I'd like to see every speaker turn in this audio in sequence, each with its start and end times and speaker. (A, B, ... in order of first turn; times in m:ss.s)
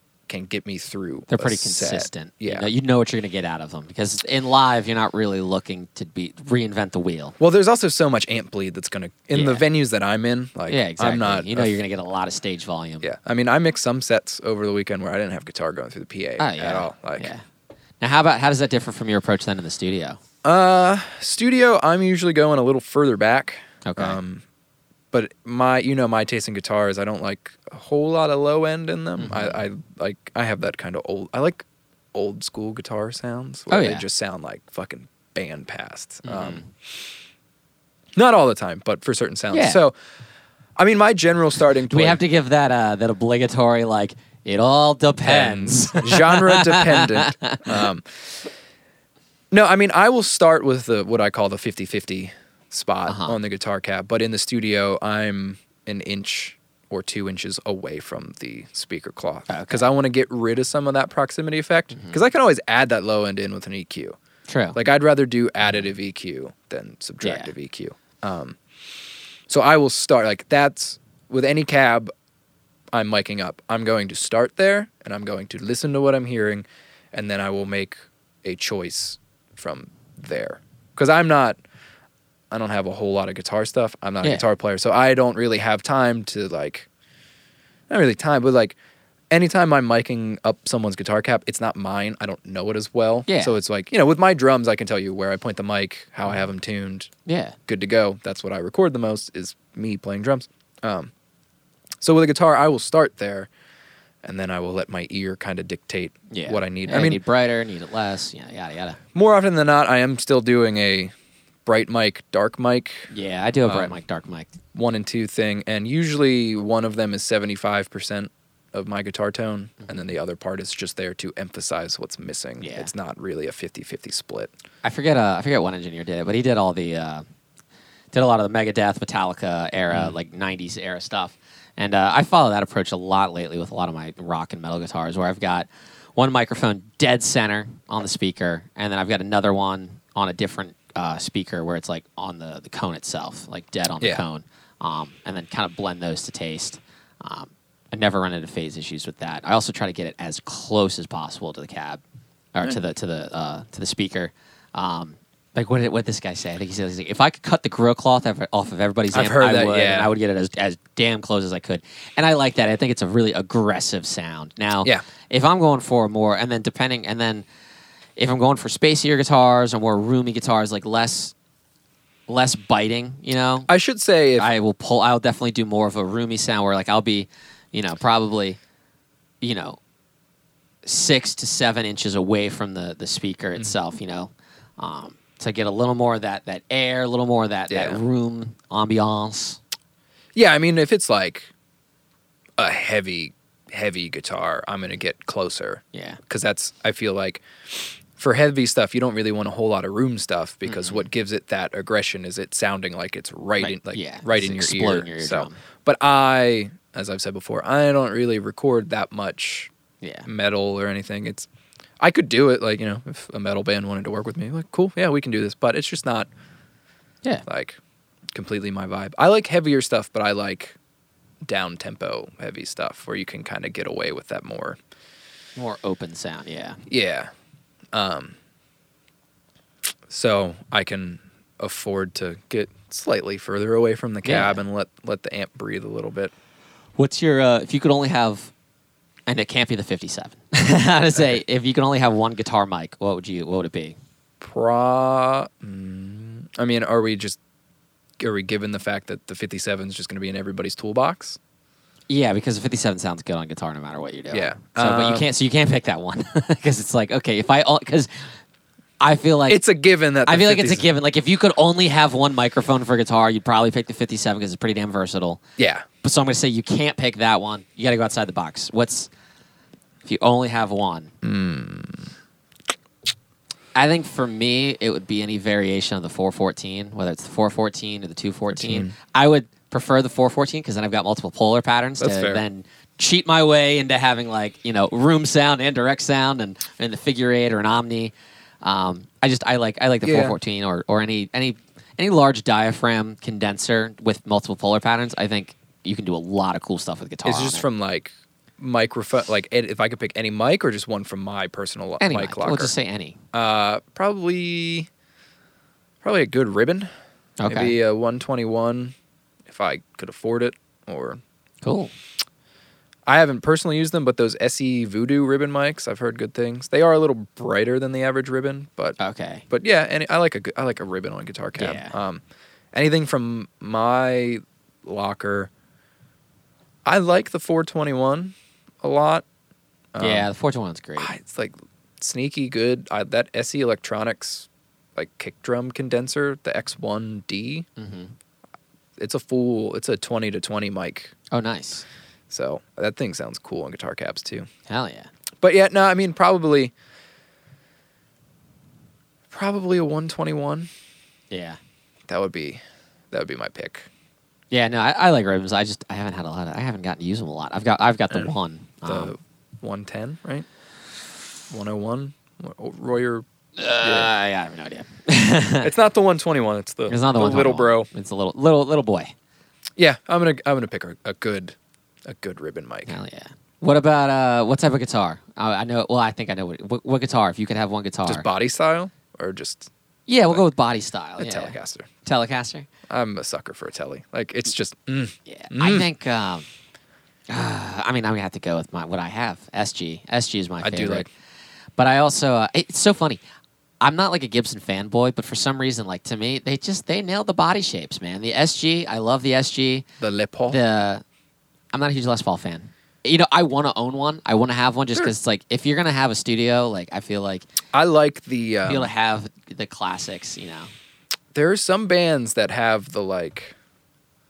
0:00.3-0:02.7 A
0:01.3-0:07.4 B
0:07.4-0:11.8 A
0:09.3-0:09.6 B
0:10.7-0:13.1 B
0:13.0-0:17.3 A
0:16.4-0:17.4 B
0:18.0-0:20.2 B
0:20.4-0:24.4 A
0:23.8-0:24.2 B
0:25.1-0:36.6 A
0:29.2-0:29.6 B
0:33.7-0:34.0 B
0:36.2-0:36.7 B
0:38.2-0:39.9 A
0:39.5-0:39.8 B
0:40.8-0:42.2 A
0:41.9-0:47.8 B
0:45.2-0:48.4 A
0:49.5-1:04.2 A
0:53.1-0:53.4 B
0:59.5-0:59.8 B
1:01.9-1:02.2 B
1:04.5-1:04.8 B
1:04.8-1:08.6 A
1:07.2-1:07.5 B
1:09.5-1:12.1 A
1:12.9-1:21.6 A
1:22.5-1:26.9 A
1:27.9-1:28.8 A
1:29.3-1:37.1 A
1:33.3-1:33.6 B
1:37.3-1:37.6 B
1:37.7-1:41.1 A
1:42.0-1:43.5 A
1:44.2-1:47.2 A
1:46.3-1:49.0 B
1:49.2-1:51.1 A
1:51.6-1:53.1 A
1:53.1-1:54.5 B
1:53.6-1:54.0 A
1:54.7-2:04.5 A
2:02.6-2:02.9 B
2:04.8-2:07.2 B
2:08.1-2:32.0 B
2:09.9-2:10.2 A
2:32.5-2:47.4 B
2:39.1-2:40.1 A
2:48.2-2:51.3 B
2:52.3-2:53.7 B
2:53.7-2:54.5 A
2:54.4-2:58.6 B
2:59.4-2:59.8 B
3:00.8-3:09.6 B
3:07.7-3:08.0 A
3:10.4-3:11.5 A
3:12.6-3:29.7 A
3:15.9-3:16.2 B
3:20.6-3:21.1 B
3:23.6-3:25.6 B
3:30.0-3:30.3 B
3:30.2-3:31.5 A
3:32.0-3:36.3 A
3:37.5-3:37.8 A
3:38.3-3:40.8 A
3:41.4-3:44.8 A
3:45.6-3:46.8 B
3:46.9-3:47.3 A
3:47.9-3:48.4 A
3:50.1-3:56.3 A
3:54.2-3:54.6 B
3:57.0-3:58.5 B
3:59.3-4:04.0 B
4:04.4-4:07.4 A
4:08.2-4:11.4 A
4:12.1-4:18.1 B
4:14.3-4:15.2 A
4:19.0-4:19.6 B
4:19.5-4:20.9 A
4:20.2-4:25.4 B
4:25.6-4:25.9 A
4:26.0-4:29.1 B
4:30.0-4:31.1 B
4:31.2-4:32.1 A
4:33.8-4:57.6 B
4:38.5-4:38.9 A
4:42.0-4:42.4 A
4:50.0-4:50.4 A
4:57.2-5:02.7 A
5:02.0-5:03.2 B
5:03.3-5:04.9 A
5:06.0-5:06.9 A
5:07.4-5:07.8 B
5:07.5-5:08.9 A
5:09.5-5:11.2 A
5:11.6-5:11.9 B
5:13.1-5:19.0 A
5:19.0-5:19.4 B
5:19.5-5:25.5 A
5:21.6-5:22.0 B
5:26.8-5:29.2 A
5:29.9-5:30.3 A
5:30.0-5:31.1 B
5:31.0-5:37.6 A
5:37.8-5:38.1 B
5:39.0-5:41.1 A
5:41.3-5:41.8 B
5:42.3-5:44.5 A
5:44.7-5:45.1 B
5:45.4-5:46.7 A
5:49.3-5:50.7 A
5:51.3-5:51.6 B
5:52.1-5:53.9 A
5:54.5-5:59.1 B
5:58.8-6:00.5 A
6:01.5-6:03.2 A
6:03.6-6:05.7 B
6:03.8-6:04.1 A
6:05.6-6:07.9 A
6:06.9-6:09.1 B
6:09.8-6:11.6 A
6:12.1-6:13.0 A
6:12.9-6:18.2 B
6:18.1-6:19.7 A
6:20.1-6:22.7 B
6:21.2-6:21.9 A
6:22.9-6:25.9 A
6:25.3-6:26.5 B
6:27.3-6:31.1 B
6:30.6-6:31.1 A
6:31.8-6:33.2 B
6:33.8-6:39.8 B
6:40.0-6:40.6 A
6:40.5-6:41.0 B
6:41.7-6:47.5 B
6:47.7-6:48.9 A
6:48.6-6:50.7 B
6:51.3-6:53.6 A